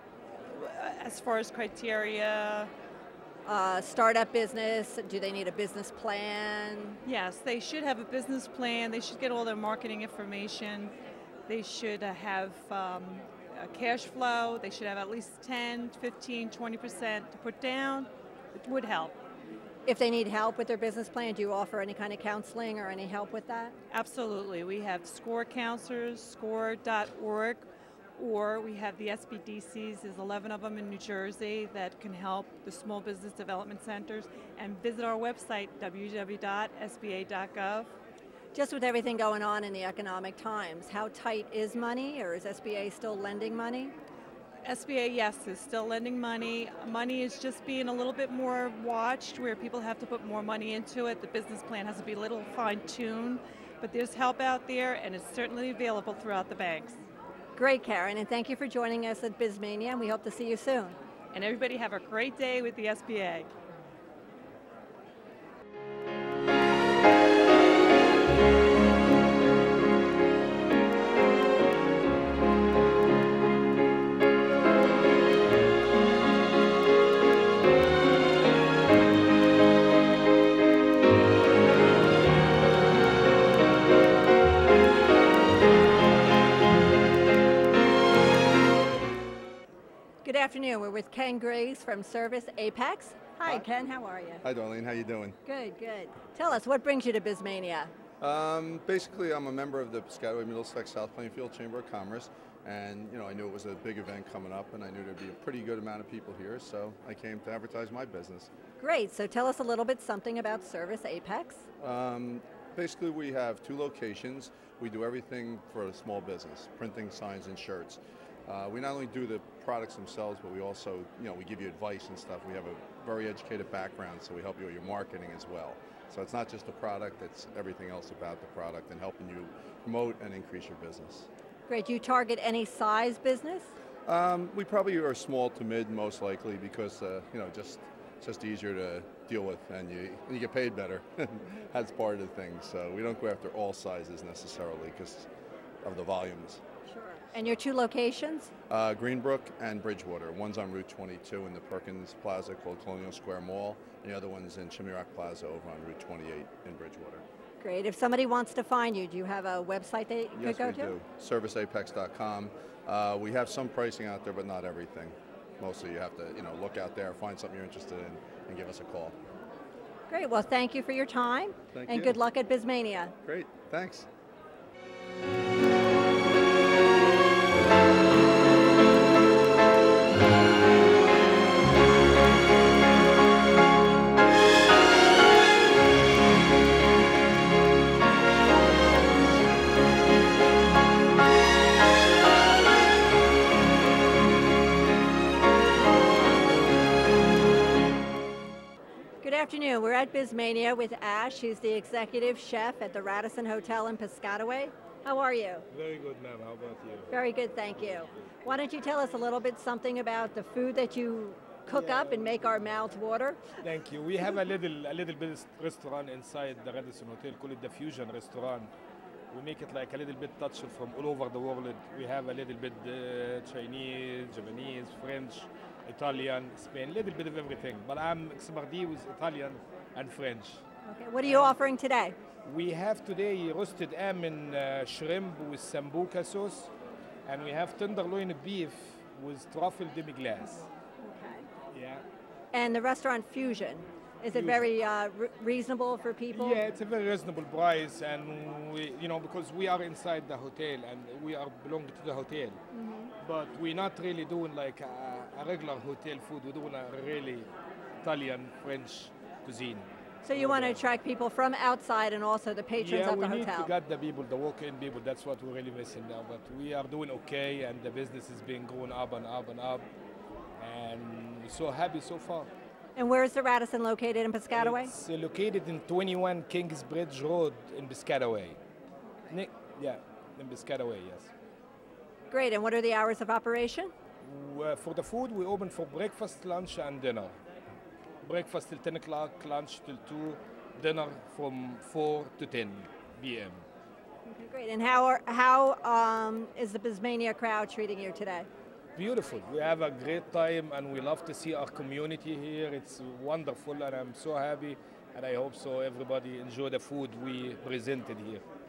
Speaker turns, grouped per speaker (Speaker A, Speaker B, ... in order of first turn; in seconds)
Speaker A: 0.4-2.7, 7.0-10.9, 11.5-19.2, 23.9-27.6, 28.2-37.9, 44.6-57.0, 61.3-63.5
Speaker B: 3.5-7.0, 19.9-23.8, 38.5-43.9, 57.5-61.0, 90.2-94.4, 95.4-97.9, 108.8-111.6, 131.7-133.7, 146.8-148.5, 157.6-160.9, 170.1-173.1, 199.2-205.6, 207.1-213.4, 230.8-232.2, 241.0-241.4, 242.5-246.6, 252.7-253.1, 260.2-263.7, 272.9-274.9, 282.3-283.9, 294.2-298.5
Speaker C: 94.4-95.4, 98.2-108.5, 111.8-131.3, 134.1-145.3, 145.8-146.6, 148.7-157.2, 160.3-169.2, 171.7-172.2, 173.2-174.1
Speaker D: 205.7-207.2, 207.8-208.2, 213.6-218.7, 219.3-230.6, 231.2-231.5, 232.4-236.7, 237.2-240.7, 241.7-242.0, 244.3-244.7, 246.3-252.6, 253.2-257.5, 258.0-260.8, 262.7-269.8, 270.6-272.5, 274.5-278.6, 279.3-281.3, 284.2-287.4, 288.2-293.6, 298.9-308.4